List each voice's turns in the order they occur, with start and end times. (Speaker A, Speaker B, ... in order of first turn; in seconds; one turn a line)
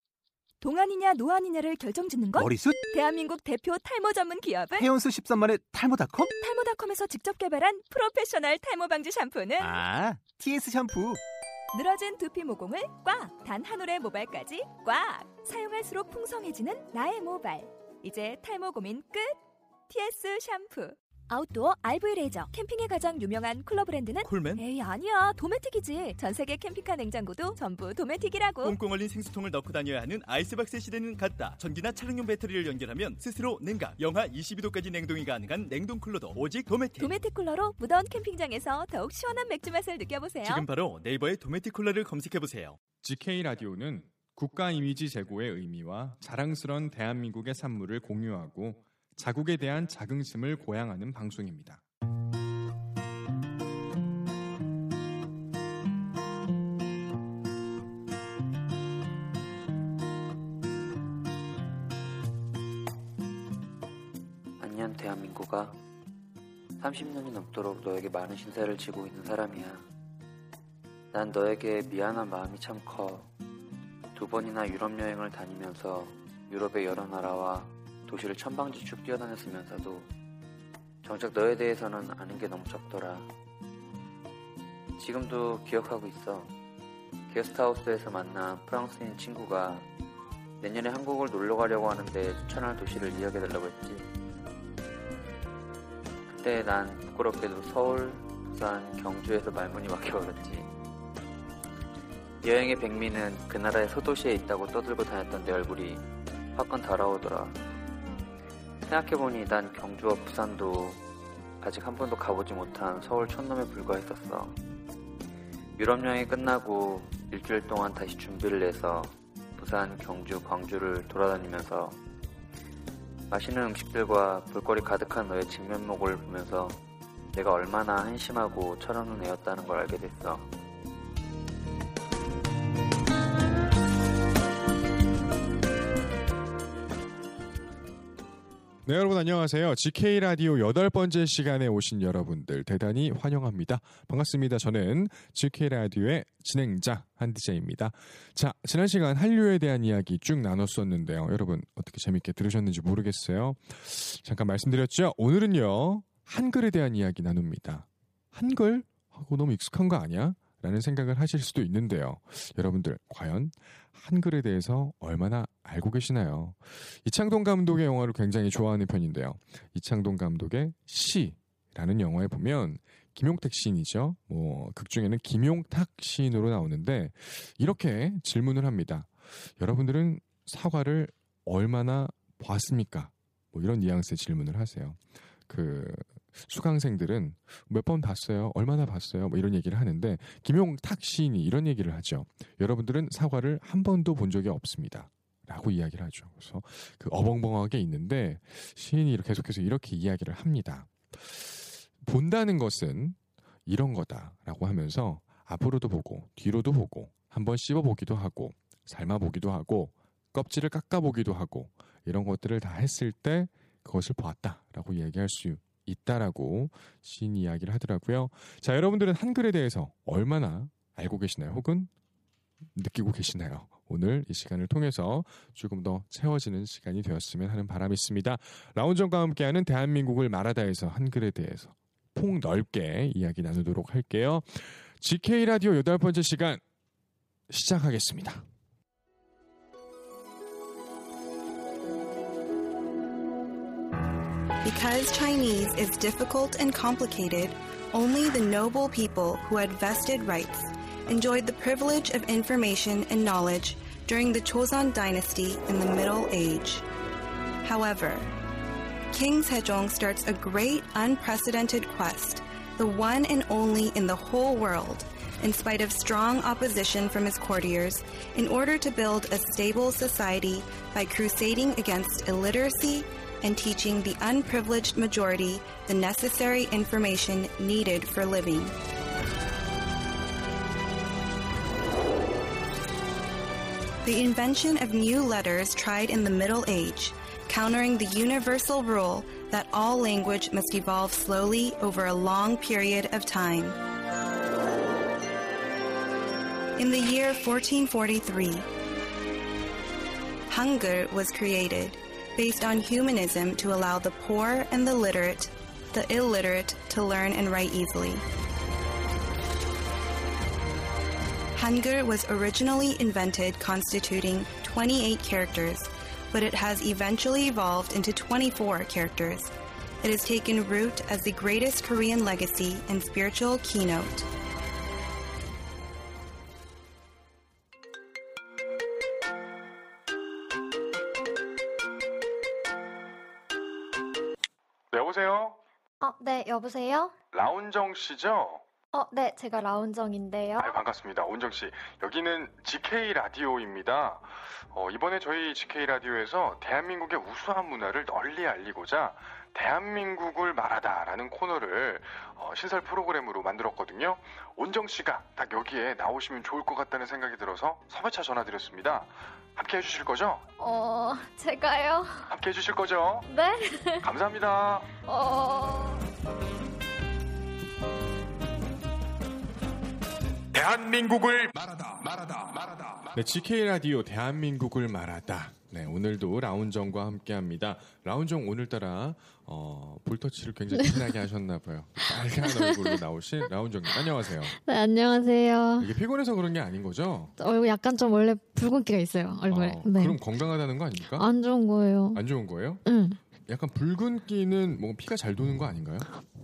Speaker A: 0.6-4.9
Speaker B: 5.0-6.1
Speaker A: 6.2-9.8
Speaker B: 9.7-11.2
Speaker A: 11.7-19.4
Speaker A: 19.9-28.8
Speaker C: 24.3-24.6
Speaker C: 28.6-37.1
Speaker A: 37.0-40.7
Speaker C: 40.4-42.8
Speaker D: 43.0-51.8
Speaker E: 64.6-65.8
Speaker E: 66.8-69.8
Speaker E: 71.1-73.3
Speaker E: 74.2-80.1
Speaker E: 81.0-83.3
Speaker E: 85.0-86.5
Speaker E: 87.3-89.9
Speaker E: 90.6-94.1
Speaker E: 96.3-100.7
Speaker E: 102.4-107.6
Speaker E: 108.8-111.0
Speaker E: 111.6-114.6
Speaker E: 115.8-122.0
Speaker E: 123.3-126.8
Speaker E: 127.3-130.5
Speaker D: 138.8-221.9
Speaker D: 222.8-236.6
Speaker D: 237.5-238.4
Speaker F: 244.6-256.9
Speaker F: 257.6-258.4
Speaker F: 259.1-278.8
Speaker F: 284.0-293.8
Speaker F: 296.8-298.7
Speaker F: 300.5-308.2
Speaker F: 311.5-324.3
Speaker D: 334.9-335.6
Speaker G: 336.0-337.1
Speaker D: 337.3-338.6
Speaker G: 338.9-340.8
Speaker D: 340.6-360.4
Speaker G: 360.6-362.3
Speaker D: 362.3-363.3
Speaker G: 363.3-364.1
Speaker D: 364.0-364.9
Speaker G: 365.0-366.0
Speaker D: 370.5-384.6
Speaker G: 382.4-383.0
Speaker G: 384.5-385.9
Speaker D: 385.8-387.3
Speaker G: 387.4-390.2
Speaker D: 389.5-391.3
Speaker G: 391.1-392.2
Speaker D: 392.1-392.8
Speaker G: 392.9-393.2
Speaker D: 393.5-396.1